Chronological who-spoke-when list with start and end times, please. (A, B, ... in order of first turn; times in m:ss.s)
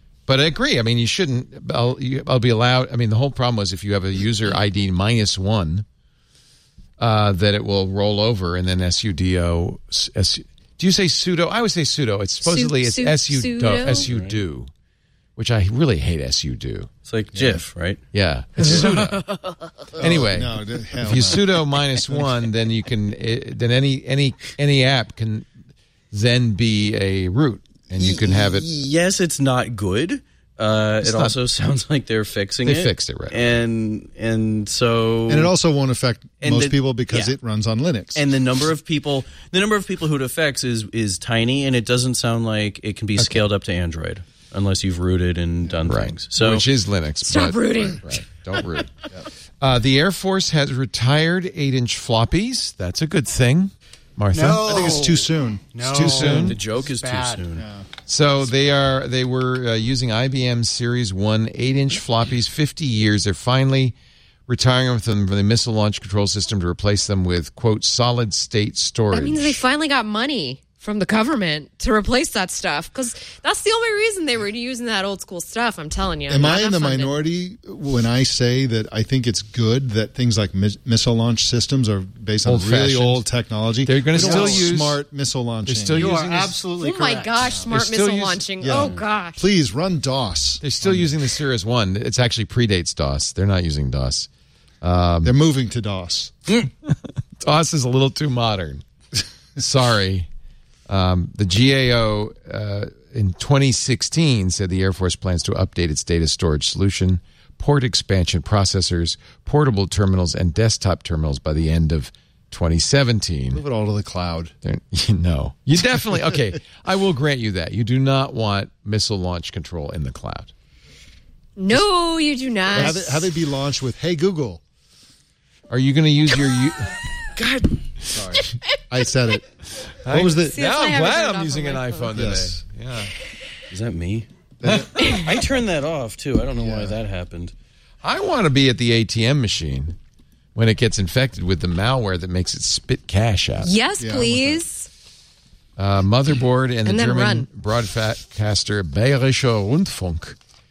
0:00.3-0:05.8 A
0:07.0-0:14.7 A
0:12.4-0:14.1 B
0:13.9-0:14.4 C
0:15.4-0:16.9 A
0:17.1-0:18.0 C
0:18.1-0:19.3 A
0:18.6-0:19.1 C
0:19.9-0:22.3 D
0:20.0-0:25.5 A
0:26.1-0:28.7 A
0:28.1-0:35.5 C
0:31.0-0:31.4 A
0:32.6-0:33.6 A
0:35.3-0:38.2 D
0:36.4-0:37.3 C
0:38.2-0:46.6 C
0:43.2-0:43.4 A
0:45.8-0:48.9 A
0:47.2-0:48.1 B
0:49.6-0:55.0 A
0:54.3-0:57.6 E
0:54.6-0:56.4 D
0:55.9-0:56.6 A
0:56.2-0:57.7 C
0:58.1-1:04.0 A
1:04.5-1:09.6 A
1:09.1-1:17.2 B
1:16.3-1:26.1 D
1:22.4-1:23.3 A
1:23.8-1:25.0 A
1:24.1-1:24.7 E
1:25.7-1:26.6 A
1:25.9-1:27.5 E
1:26.8-1:29.4 B
1:27.7-1:28.5 A
1:28.6-1:31.1 D
1:28.7-1:29.0 C
1:30.6-1:34.3 A
1:34.8-1:35.4 A
1:35.2-1:36.3 D
1:36.9-1:38.8 A
1:39.6-1:40.3 A
1:40.9-1:53.6 A
1:53.5-1:54.5 D
1:54.6-2:00.5 A
2:01.6-2:03.3 B
2:02.7-2:04.6 D
2:05.7-2:07.0 A
2:07.4-2:08.4 C
2:08.9-2:09.5 D
2:10.0-2:13.1 A
2:10.1-2:10.6 D
2:10.3-2:12.2 B
2:12.2-2:12.6 D
2:13.7-2:14.3 C
2:14.6-2:15.1 D
2:15.0-2:17.5 C
2:16.6-2:17.0 D
2:18.0-2:20.0 A
2:20.6-2:23.7 A
2:23.6-2:24.9 B
2:24.0-2:24.6 D
2:25.8-2:30.4 A
2:26.9-2:27.5 B